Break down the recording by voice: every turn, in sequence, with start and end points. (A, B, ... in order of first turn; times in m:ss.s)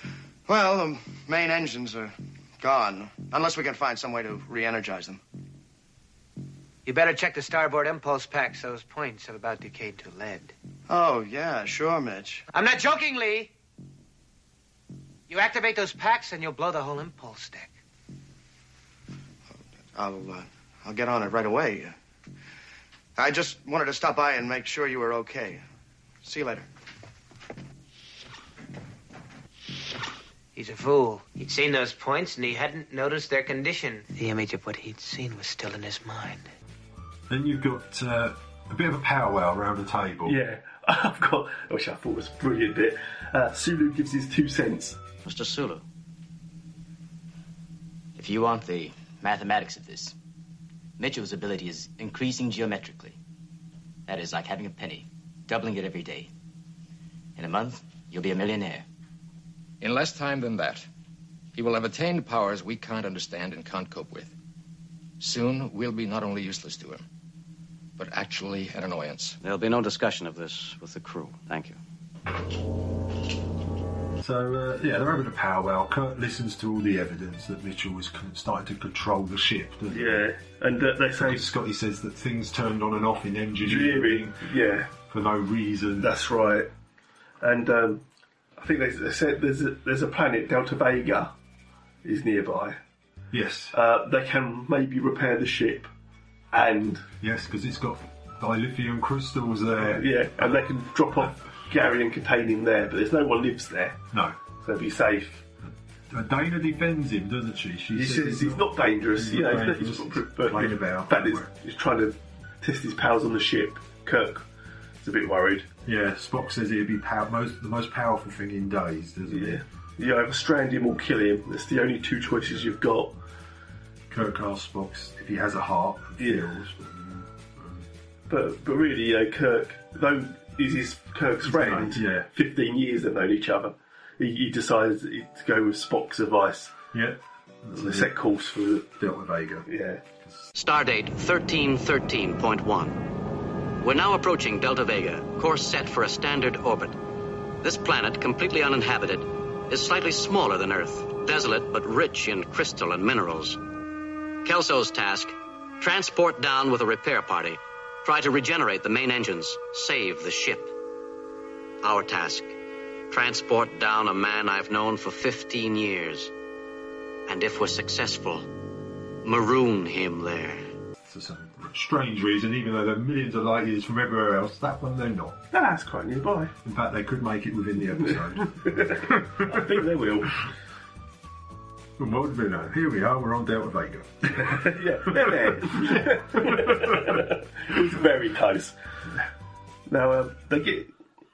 0:00.5-0:05.2 A
0:06.9-0:10.5 B
0:10.9-0:12.5 A
0:12.5-0:13.5 B
0:15.3-0:17.7 B
0:20.0-0:22.0 A
0:23.2-0:25.6 A
0:26.2-0:26.7 A
0:30.6-0:36.5 B
0:37.3-0:40.4 C
0:40.3-0:45.0 D
0:45.2-0:45.8 E
0:48.2-0:50.1 F
0:51.0-0:53.2 F
0:54.1-0:56.3 F
0:57.4-0:58.8 F
0:59.8-1:00.9 G
1:01.6-1:04.3 G
1:05.2-1:07.0 G
1:08.0-1:09.4 G
1:09.4-1:11.8 E
1:14.2-1:20.2 C
1:19.9-1:21.5 D
1:21.2-1:24.4 C
1:23.6-1:24.9 D
1:25.0-1:26.1 C
1:26.0-1:26.7 D
1:27.4-1:28.0 D
1:28.6-1:31.3 D
1:32.0-1:32.8 D
1:33.3-1:33.7 C
1:33.7-1:35.9 D
1:36.5-1:37.0 D
1:37.2-1:40.6 C
1:39.8-1:44.0 D
1:44.6-1:45.4 D
1:46.1-1:51.5 C
1:48.0-1:54.5 D
1:55.0-1:55.7 D
1:55.9-1:59.6 C
1:59.3-2:03.2 D
2:04.1-2:07.9 C
2:06.2-2:06.5 D
2:08.3-2:16.7 D
2:11.4-2:12.3 C
2:16.9-2:18.1 C
2:17.7-2:18.9 D
2:19.0-2:19.7 C
2:19.7-2:20.0 D
2:20.5-2:23.0 E
2:23.8-2:27.0 E
2:27.6-2:33.6 E
2:34.4-2:40.7 E
2:41.8-2:42.6 E
2:43.1-2:46.3 E
2:47.3-2:48.5 E
2:49.2-2:50.6 E
2:51.1-2:55.4 C
2:55.5-2:56.5 D
2:56.6-2:59.8 C
2:58.1-3:00.4 D
3:02.0-3:07.2 C
3:04.4-3:08.8 D
3:09.9-3:10.9 D